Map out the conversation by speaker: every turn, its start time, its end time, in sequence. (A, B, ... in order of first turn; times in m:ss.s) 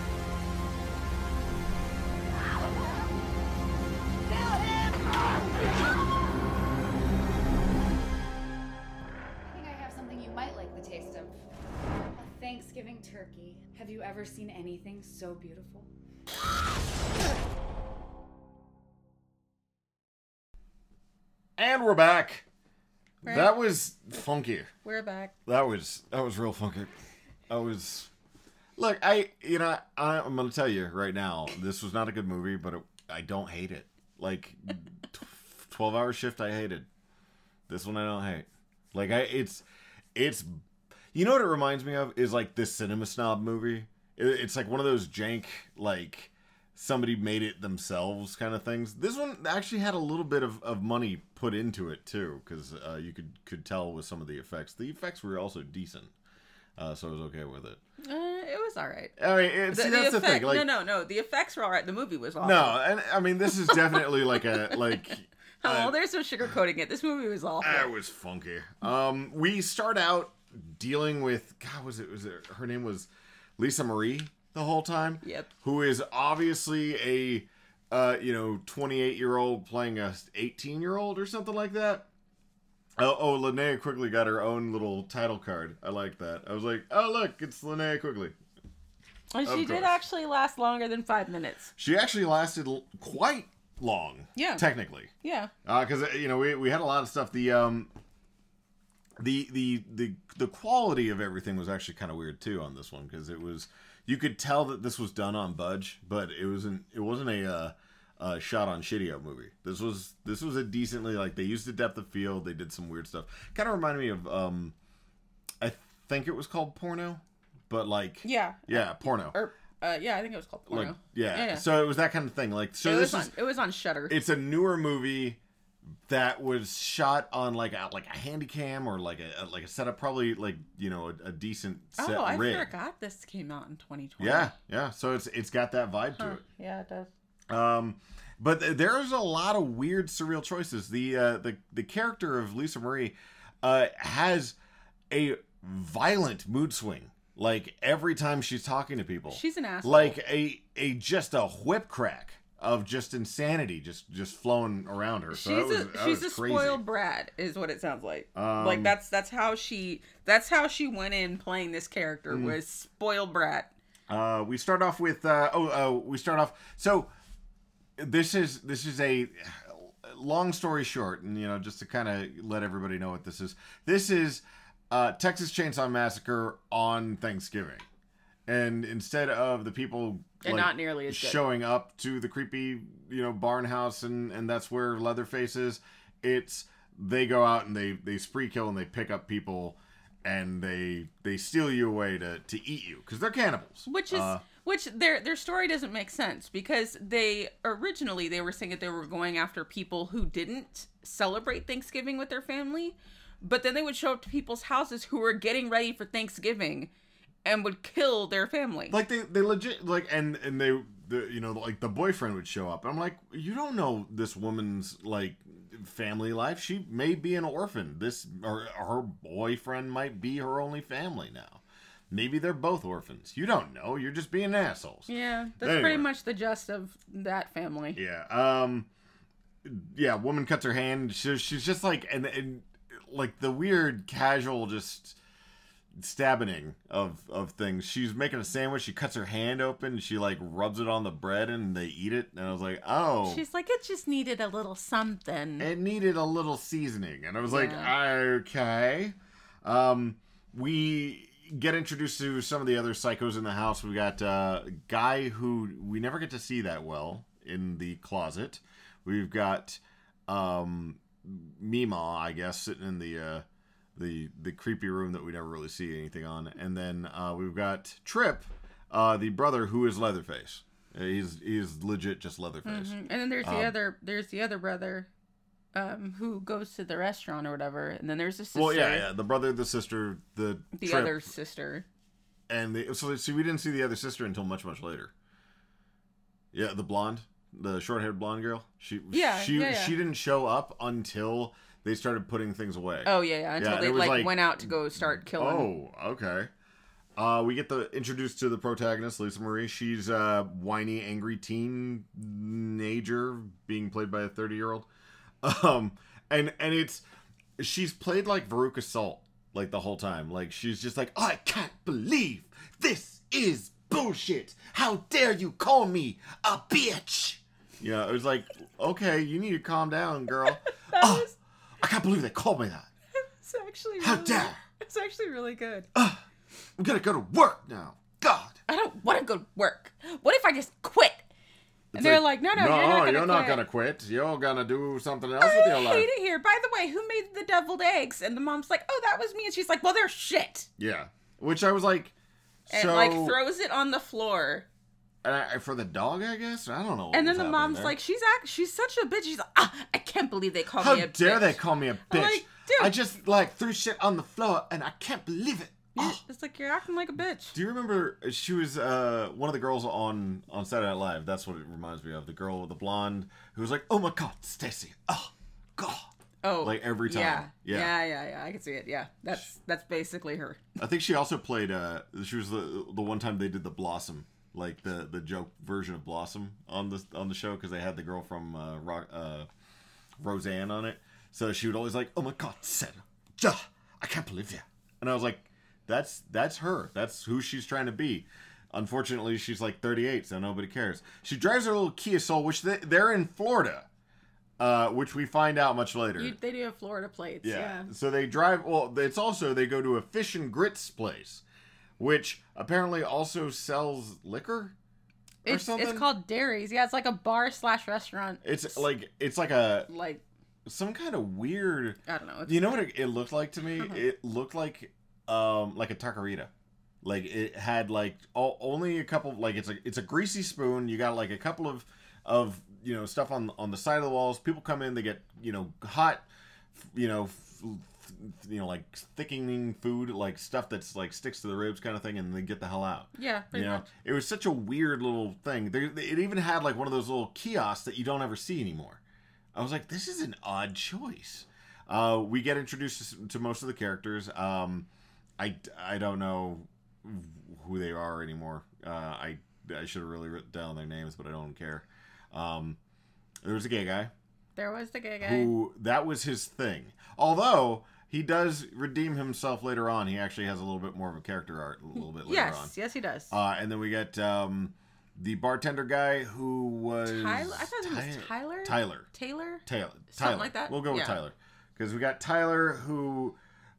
0:09.4-0:11.4 A
0:11.9-0:15.9 A
0:21.6-0:22.4 B
0:23.2-0:23.5 C
0:23.2-0:24.7 B
0:24.8-0:25.3 C
0:25.5-0:26.9 B
0:27.5-0:28.1 B
0:28.8-0:36.9 B
0:37.7-0:40.6 B
0:41.1-0:56.1 B
0:56.8-0:57.8 B
0:58.0-0:59.1 C
0:59.2-1:00.7 B
0:59.7-1:02.8 C
1:02.4-1:05.9 B
1:04.5-1:04.8 C
1:05.6-1:07.9 C
1:07.6-1:22.1 B
1:15.2-1:15.5 C
1:23.0-1:28.4 B
1:29.3-1:31.7 C
1:29.4-1:29.9 B
1:31.8-1:35.1 B
1:34.4-1:34.7 C
1:35.2-1:35.5 C
1:35.6-1:37.9 B
1:39.2-1:54.7 B
1:55.6-1:59.4 B
1:58.2-2:01.6 C
2:00.7-2:03.3 B
2:02.8-2:04.2 C
2:04.1-2:05.4 B
2:06.1-2:12.7 B
2:12.0-2:14.5 C
2:14.2-2:16.4 B
2:16.2-2:17.1 C
2:17.5-2:24.6 B
2:25.1-2:36.8 B
2:29.3-2:30.2 C
2:35.3-2:43.7 C
2:38.4-2:39.0 B
2:42.3-2:42.6 B
2:44.1-2:47.1 B
2:48.0-2:57.8 B
2:58.5-3:14.4 B
3:00.4-3:01.4 C
3:13.9-3:26.9 C
3:27.4-3:29.0 C
3:28.9-3:45.1 B
3:45.1-3:48.0 C
3:45.6-3:46.1 B
3:48.0-3:48.9 B
3:49.6-3:55.2 B
3:56.0-4:03.4 B
4:03.2-4:05.7 C
4:05.6-4:23.4 B
4:07.5-4:07.9 C
4:24.0-4:33.7 B
4:32.6-4:35.1 C
4:35.7-4:39.1 C
4:38.6-4:41.3 B
4:40.8-4:41.8 C
4:42.5-4:45.1 B
4:46.5-4:56.5 B
4:49.1-4:50.0 C
4:53.0-4:55.7 C
4:57.2-5:04.9 B
5:05.4-5:07.0 B
5:07.6-5:21.3 B
5:20.4-5:21.3 C
5:21.8-5:22.9 B
5:23.2-5:25.9 C
5:24.0-5:24.6 B
5:26.0-5:26.2 B
5:26.8-5:28.6 B
5:28.7-5:31.3 C
5:31.9-5:36.1 B
5:32.0-5:33.6 C
5:35.4-5:40.7 C
5:40.8-5:42.1 B
5:42.7-5:43.4 B
5:42.7-5:44.7 C
5:45.2-5:48.0 B
5:47.1-5:52.9 C
5:50.8-5:56.2 B
5:56.0-5:57.6 C
5:57.5-6:06.1 B
6:06.4-6:10.8 C
6:06.6-6:07.9 B
6:10.8-6:19.5 B
6:20.2-6:33.9 B
6:34.6-6:36.4 B
6:36.2-6:37.9 C
6:37.4-6:41.4 B
6:42.0-6:44.8 B
6:45.4-6:48.8 C
6:45.5-6:46.1 B
6:48.4-6:49.9 B
6:49.9-6:50.2 C
6:50.7-6:56.5 B
6:52.1-6:52.7 C
6:57.0-7:19.0 B
7:13.1-7:13.9 C
7:19.6-7:24.9 B
7:25.4-7:32.8 B
7:33.4-7:34.1 B
7:34.6-7:35.5 C
7:35.2-7:42.7 B
7:42.2-7:43.3 C
7:43.3-7:49.1 B
7:47.0-7:51.2 C
7:49.6-7:53.4 B